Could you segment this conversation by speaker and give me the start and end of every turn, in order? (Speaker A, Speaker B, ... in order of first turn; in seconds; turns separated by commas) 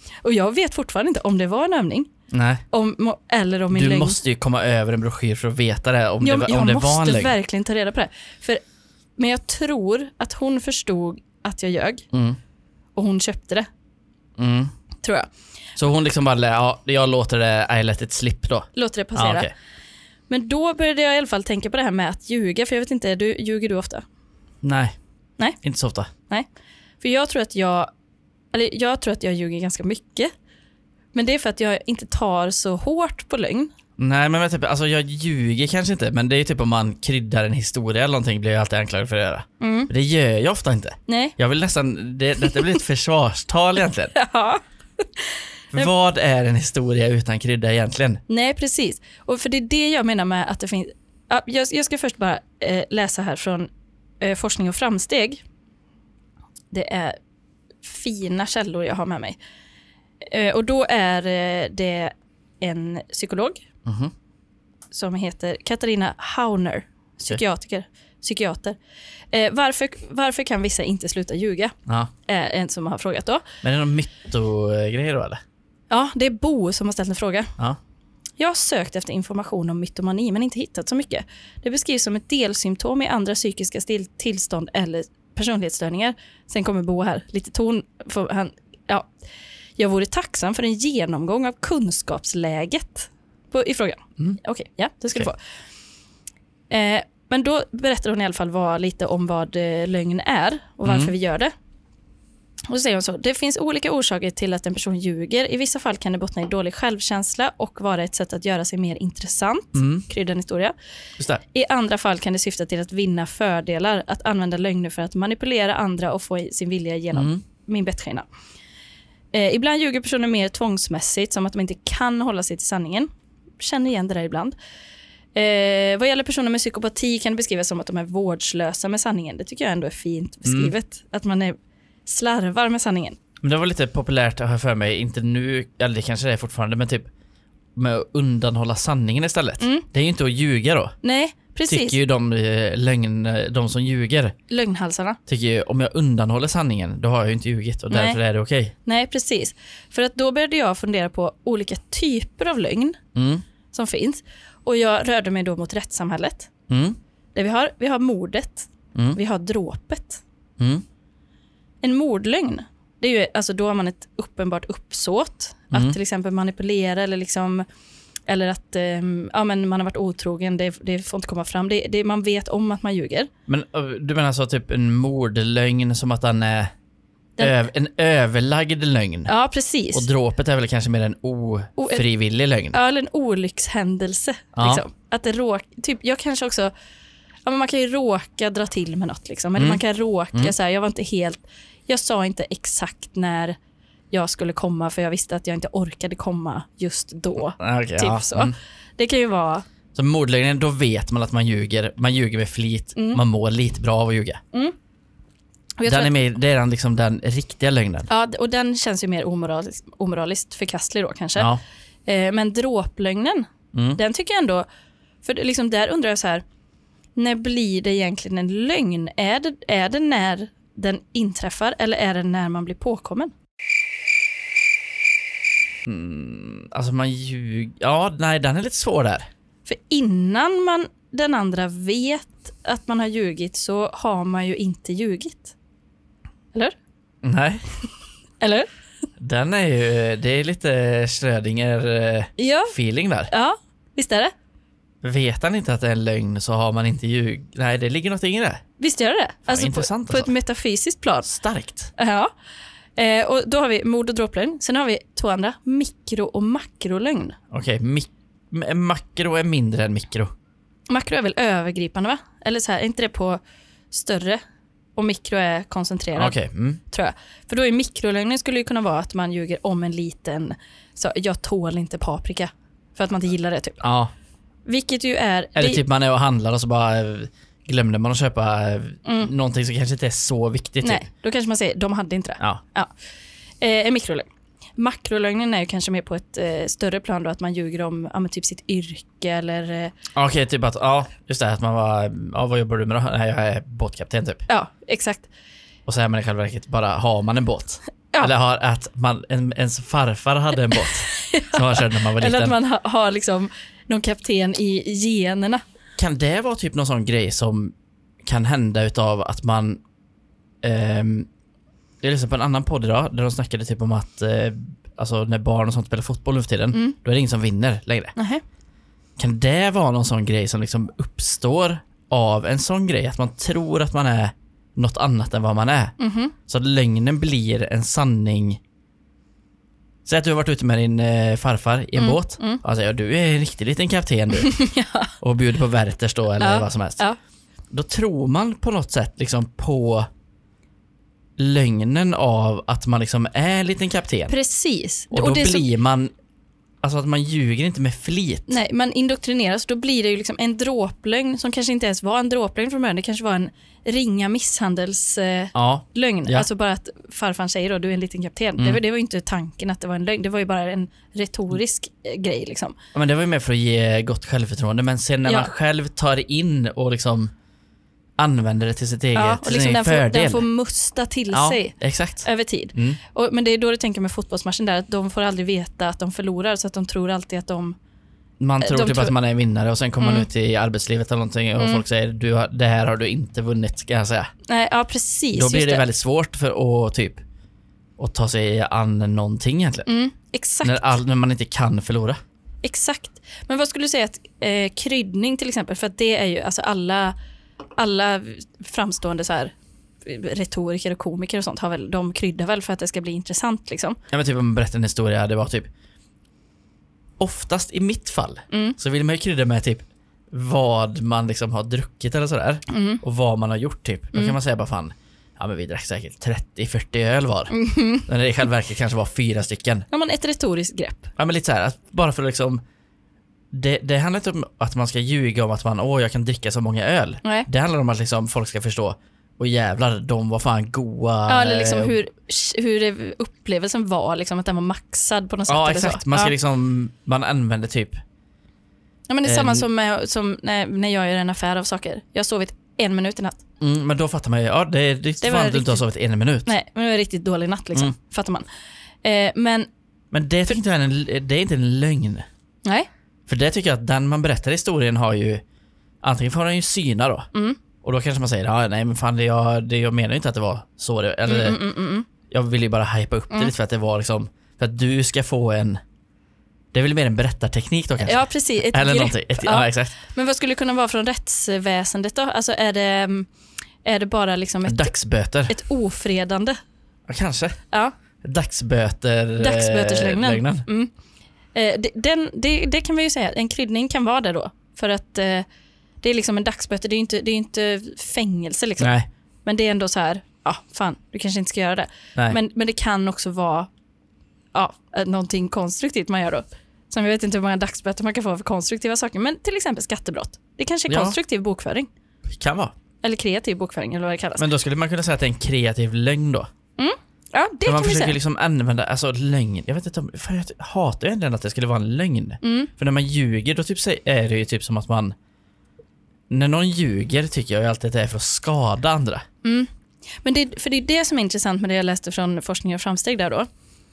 Speaker A: 0.2-2.1, Speaker B: 2.3-2.6, Speaker A: 2.7-4.2, Speaker B: 3.7-7.3, Speaker A: 6.2-8.6, Speaker A: 9.2-12.1, Speaker B: 12.1-12.4, Speaker A: 12.9-13.7, Speaker B: 14.4-14.7, Speaker A: 15.0-15.3, Speaker B: 15.8-19.5, Speaker A: 18.8-19.5, Speaker A: 20.3-24.0, Speaker B: 24.6-24.9, Speaker B: 25.6-26.1, Speaker A: 27.0-27.9, Speaker A: 28.5-30.3, Speaker A: 31.1-33.7, Speaker B: 34.0-44.1, Speaker A: 39.6-39.9, Speaker A: 41.1-41.3, Speaker A: 44.1-44.6, Speaker B: 45.7-48.2, Speaker A: 48.3-53.7, Speaker A: 54.2-55.4, Speaker A: 56.7-57.2, Speaker A: 57.8-59.4, Speaker A: 60.2-63.6, Speaker B: 63.8-64.1, Speaker A: 64.9-68.8, Speaker A: 69.3-71.7, Speaker A: 72.2-73.4, Speaker B: 73.6-75.4, Speaker A: 75.9-77.5, Speaker A: 78.4-89.1, Speaker A: 89.8-95.4, Speaker A: 96.7-101.5, Speaker B: 100.8-101.1, Speaker A: 102.7-110.7, Speaker B: 109.7-110.0, Speaker A: 111.5-118.2, Speaker B: 117.1-117.4, Speaker A: 119.3-124.5, Speaker A: 125.3-133.2, Speaker B: 130.4-130.7, Speaker B: 133.4-137.1, Speaker B: 137.7-140.9, Speaker A: 139.6-139.8, Speaker A: 141.0-142.0, Speaker B: 141.7-144.3, Speaker A: 144.5-145.2, Speaker B: 145.3-148.7, Speaker A: 147.9-148.2, Speaker A: 148.8-153.0, Speaker B: 153.1-153.4, Speaker A: 153.7-156.5, Speaker B: 156.7-157.0, Speaker A: 157.3-160.2, Speaker B: 160.6-160.8, Speaker A: 161.8-167.7, Speaker A: 168.3-173.3, Speaker B: 173.5-176.7, Speaker B: 177.4-179.3, Speaker A: 179.3-180.1, Speaker B: 179.9-182.8, Speaker A: 181.8-182.0, Speaker A: 182.7-186.7, Speaker B: 184.5-184.8, Speaker A: 187.4-193.6, Speaker B: 189.6-189.8, Speaker A: 194.1-199.7, Speaker B: 197.6-198.5, Speaker B: 199.9-204.4, Speaker A: 202.9-203.2, Speaker A: 205.8-206.1, Speaker B: 205.8-208.1, Speaker A: 208.1-211.5, Speaker A: 212.1-214.7, Speaker B: 213.7-214.0, Speaker A: 215.2-216.4, Speaker A: 217.2-223.3, Speaker B: 225.8-229.3, Speaker A: 229.7-235.5, Speaker B: 237.2-237.6, Speaker A: 238.4-238.7, Speaker B: 239.2-243.3, Speaker A: 242.4-242.7, Speaker A: 243.3-244.3, Speaker B: 245.0-248.6, Speaker A: 248.8-251.3, Speaker B: 249.5-250.3, Speaker B: 251.2-251.9, Speaker A: 251.9-252.3, Speaker A: 252.9-257.4, Speaker B: 257.5-260.3, Speaker A: 260.9-264.4, Speaker A: 264.9-266.4, Speaker B: 266.1-266.8, Speaker A: 266.9-273.8, Speaker B: 273.8-274.1, Speaker A: 274.6-275.8, Speaker B: 275.5-281.0, Speaker A: 279.0-279.3, Speaker A: 280.8-282.9, Speaker A: 283.6-289.9, Speaker B: 290.1-294.4, Speaker A: 294.5-295.3, Speaker B: 295.9-302.6, Speaker A: 300.8-305.6, Speaker B: 306.0-309.8, Speaker B: 310.6-311.3, Speaker B: 312.0-318.1, Speaker A: 318.1-318.4, Speaker B: 319.2-328.6, Speaker A: 326.0-326.3, Speaker B: 330.0-334.6, Speaker A: 331.9-332.6, Speaker A: 334.4-335.1, Speaker B: 335.2-337.0, Speaker A: 336.4-337.2, Speaker B: 337.7-340.1, Speaker B: 341.4-344.3, Speaker A: 344.3-345.7, Speaker B: 345.1-346.1, Speaker B: 346.8-348.6, Speaker A: 348.5-362.8, Speaker B: 355.5-356.5, Speaker B: 362.9-367.3, Speaker A: 365.2-365.5, Speaker B: 368.2-370.4, Speaker A: 369.1-377.8, Speaker B: 371.3-373.0, Speaker B: 378.4-384.3, Speaker A: 378.6-379.1, Speaker A: 380.0-380.3, Speaker A: 381.6-381.8, Speaker A: 384.5-385.8, Speaker B: 385.3-387.2, Speaker B: 388.0-389.9, Speaker A: 389.9-390.9, Speaker B: 390.6-392.2, Speaker A: 392.6-397.1, Speaker A: 397.8-399.5, Speaker A: 400.0-404.0, Speaker B: 404.1-405.7, Speaker B: 407.2-417.5, Speaker A: 408.5-408.8, Speaker A: 412.7-413.0, Speaker A: 417.5-418.1, Speaker B: 418.0-419.9, Speaker A: 419.9-421.1, Speaker B: 421.2-422.6, Speaker B: 423.5-432.0, Speaker A: 427.2-427.5, Speaker A: 431.3-436.3, Speaker B: 435.5-438.0, Speaker A: 439.1-443.4, Speaker B: 439.2-439.7, Speaker B: 443.6-446.5, Speaker A: 445.2-445.8, Speaker A: 446.4-448.4, Speaker A: 449.0-449.7, Speaker B: 450.1-452.2, Speaker B: 453.3-455.4, Speaker B: 456.0-457.3, Speaker A: 457.3-457.6, Speaker B: 457.8-461.6, Speaker A: 461.3-462.1, Speaker B: 462.3-465.8, Speaker B: 466.7-470.0, Speaker A: 468.0-473.3, Speaker A: 473.8-474.9, Speaker B: 474.6-475.6, Speaker A: 475.5-476.6, Speaker B: 477.1-477.6, Speaker B: 478.2-480.6, Speaker A: 479.4-480.9, Speaker A: 481.5-485.4, Speaker A: 486.0-488.9, Speaker B: 488.8-489.1, Speaker A: 489.4-493.7, Speaker A: 494.5-501.9, Speaker B: 500.9-501.2, Speaker B: 502.2-502.7, Speaker A: 503.0-504.4, Speaker B: 504.4-506.5, Speaker A: 506.8-508.2, Speaker B: 507.6-515.1, Speaker A: 512.4-512.7, Speaker B: 516.3-519.2, Speaker A: 519.4-519.7, Speaker A: 520.2-523.5